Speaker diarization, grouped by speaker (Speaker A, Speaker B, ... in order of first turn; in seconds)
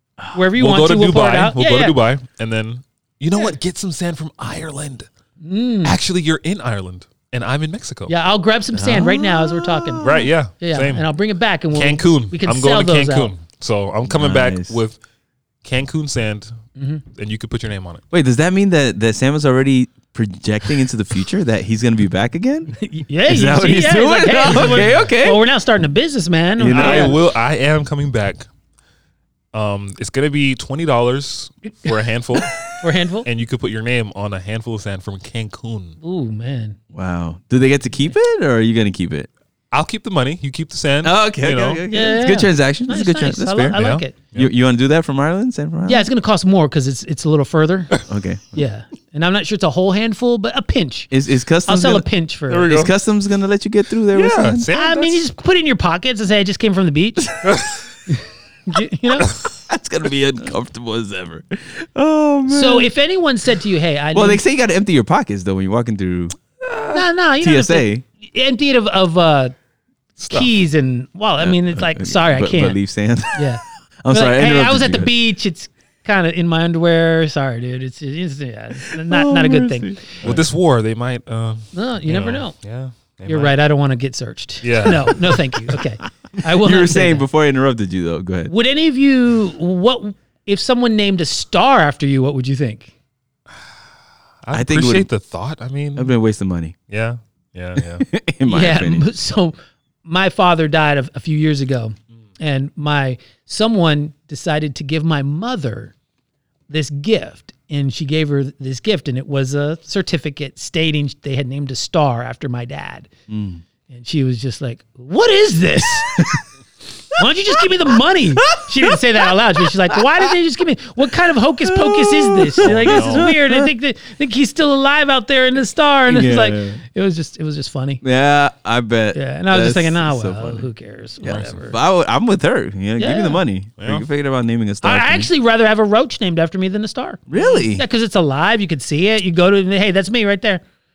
Speaker A: 0.3-2.0, 5.4-6.0, 8.1-13.3, 16.8-17.0, 22.7-27.2, 32.7-33.3, 36.0-36.8, 41.9-44.1, 45.9-51.1, 51.7-52.7, 54.7-57.5, 58.1-59.3, 62.5-64.4, 66.9-69.5, 70.3-72.8, 73.3-80.3, 81.7-82.5, 83.3-87.2, 88.5-92.9, 98.5-105.9, 106.7-113.1, 113.9-116.4, 117.1-128.0, 129.1-131.8, 133.0-133.4, 134.8-140.6
Speaker B: 0.5-5.1, 5.8-8.1, 10.0-11.1, 11.7-15.0, 15.6-16.6, 17.1-18.0, 26.7-28.5, 29.5-32.5, 33.2-36.0, 39.7-41.8, 43.7-44.5, 52.5-52.9, 54.1-55.2, 57.4-57.8, 70.2-70.5, 80.2-83.5, 84.6-85.4, 94.4-96.1, 96.9-98.0, 122.6-123.3, 131.2-131.6, 133.8-134.1
Speaker C: 8.7-10.1, 14.1-14.8, 18.1-22.7, 23.2-25.4, 26.6-27.2, 36.9-39.3, 41.0-46.1, 48.0-48.6, 51.1-52.1, 52.6-54.7, 59.6-62.9, 64.1-68.0, 71.4-73.5, 74.0-75.1, 78.8-80.4, 86.4-88.5, 94.5-95.1, 96.0-96.7, 98.0-99.1, 113.3-113.6, 116.1-116.4, 117.2-117.6, 118.3-120.3, 121.6-123.7, 126.1-126.8, 128.0-130.7, 131.2-135.3, 137.3-137.8